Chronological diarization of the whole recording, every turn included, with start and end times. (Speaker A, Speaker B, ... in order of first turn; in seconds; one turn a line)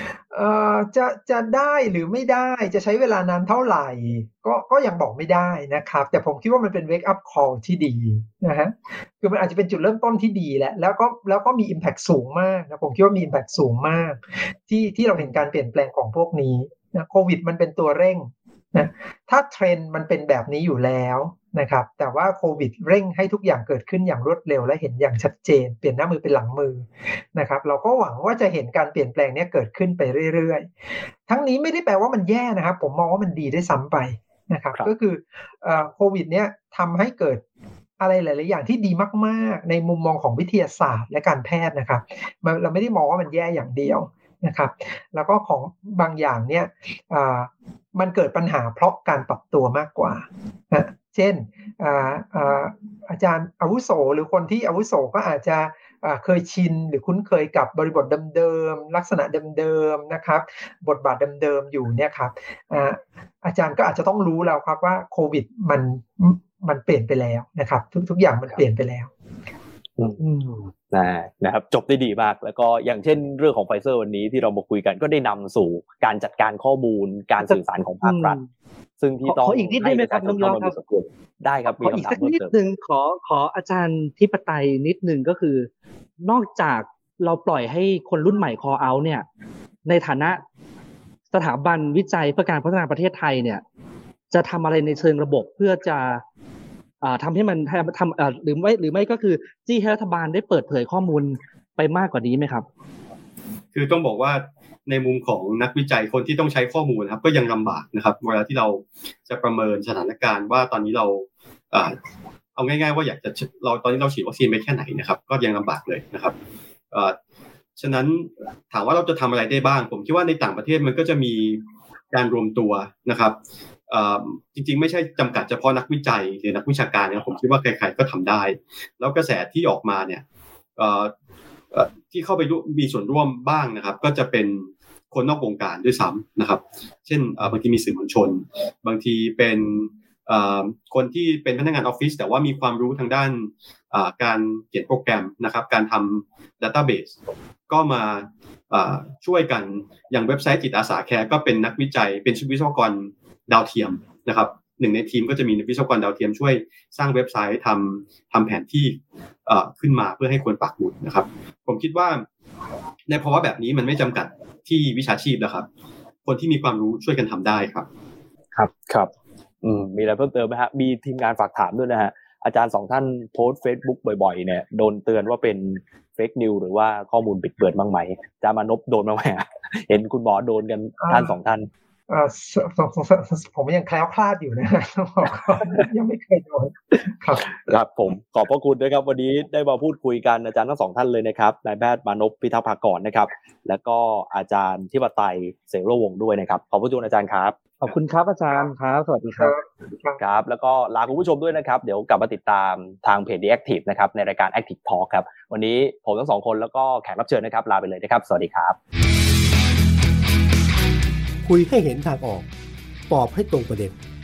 Speaker A: 0.3-30.7
Speaker A: 31.3-37.4
Speaker A: 38.0-69.1
Speaker B: 70.2-70.7
Speaker C: 70.9-78.4
Speaker B: 77.4-78.5
Speaker C: 79.0-82.5
Speaker B: 79.2-80.7
Speaker B: 81.7-85.7
Speaker B: 86.2-89.2
Speaker B: 89.8-90.4
Speaker B: 91.3-93.6
Speaker B: 94.3-96.2
Speaker B: 97.0-102.7
Speaker D: 103.7-111.9
Speaker D: 112.5-116.3
Speaker D: 117.8-123.3
Speaker D: 123.9-130.2
Speaker D: 130.8-131.1
Speaker D: 131.7-147.1
Speaker D: 147.7-162.2
Speaker D: 163.1-165.7
Speaker D: 166.2-167.9
Speaker C: 168.6-169.1
Speaker C: 169.6-181.7
Speaker A: 181.0-181.3
Speaker A: 182.1-187.4
Speaker C: 187.5-197.9
Speaker B: 197.8-199.5
Speaker A: 199.4-200.2
Speaker C: 200.2-208.8
Speaker E: 211.4-212.5
Speaker E: 213.1-213.9